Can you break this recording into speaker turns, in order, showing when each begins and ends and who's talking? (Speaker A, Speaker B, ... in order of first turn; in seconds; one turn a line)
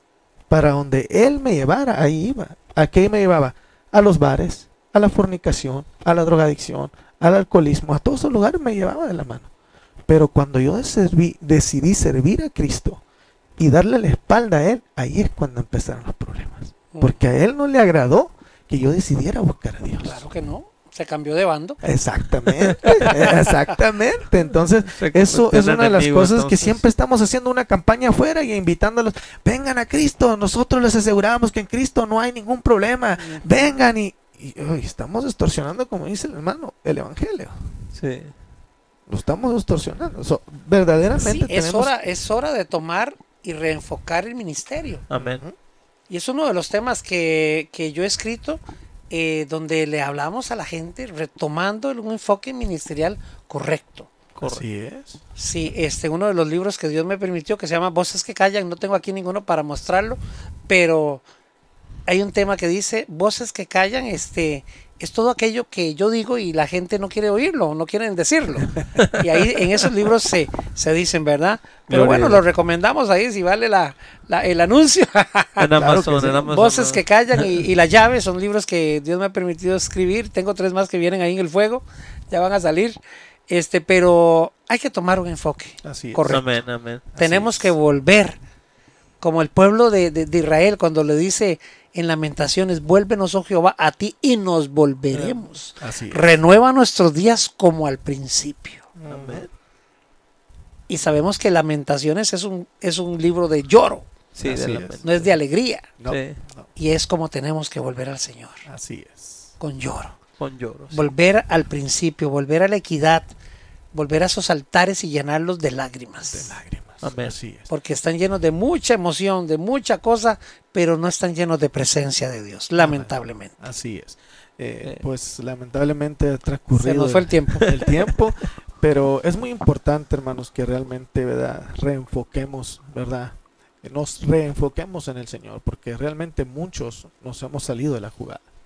Speaker A: 0.5-9.5
Speaker A: 10.1-13.0
Speaker A: 13.6-20.2
Speaker B: 16.9-17.2
Speaker B: 20.0-21.8
Speaker A: 21.8-37.6
Speaker C: 22.4-23.1
Speaker B: 22.9-23.5
Speaker C: 24.9-26.8
Speaker B: 33.2-33.7
Speaker C: 37.9-38.3
Speaker A: 39.1-41.9
Speaker B: 41.2-45.0
Speaker C: 45.1-45.4
Speaker A: 45.1-45.5
Speaker B: 46.1-54.2
Speaker C: 54.4-54.6
Speaker A: 54.4-55.2
Speaker B: 55.4-61.2
Speaker B: 62.1-75.7
Speaker C: 68.9-69.8
Speaker C: 71.9-72.4
Speaker C: 75.6-77.0
Speaker A: 75.8-76.5
Speaker B: 76.4-83.0
Speaker B: 83.5-86.4
Speaker A: 85.8-86.4
Speaker C: 86.3-87.1
Speaker A: 87.1-87.7
Speaker B: 87.2-88.4
Speaker B: 89.2-98.9
Speaker A: 95.8-96.4
Speaker A: 99.0-99.5
Speaker C: 99.1-99.5
Speaker B: 100.9-104.0
Speaker C: 104.3-105.3
Speaker A: 104.4-105.0
Speaker B: 105.0-105.9
Speaker A: 106.0-106.7
Speaker C: 106.1-106.4
Speaker B: 106.8-108.6
Speaker A: 108.7-109.5
Speaker B: 109.6-110.2
Speaker C: 110.4-111.1
Speaker B: 110.9-113.3
Speaker B: 113.9-116.5
Speaker A: 116.2-117.7
Speaker C: 117.0-117.3
Speaker B: 117.7-123.5
Speaker A: 122.8-138.4
Speaker B: 126.7-127.7
Speaker C: 127.6-127.9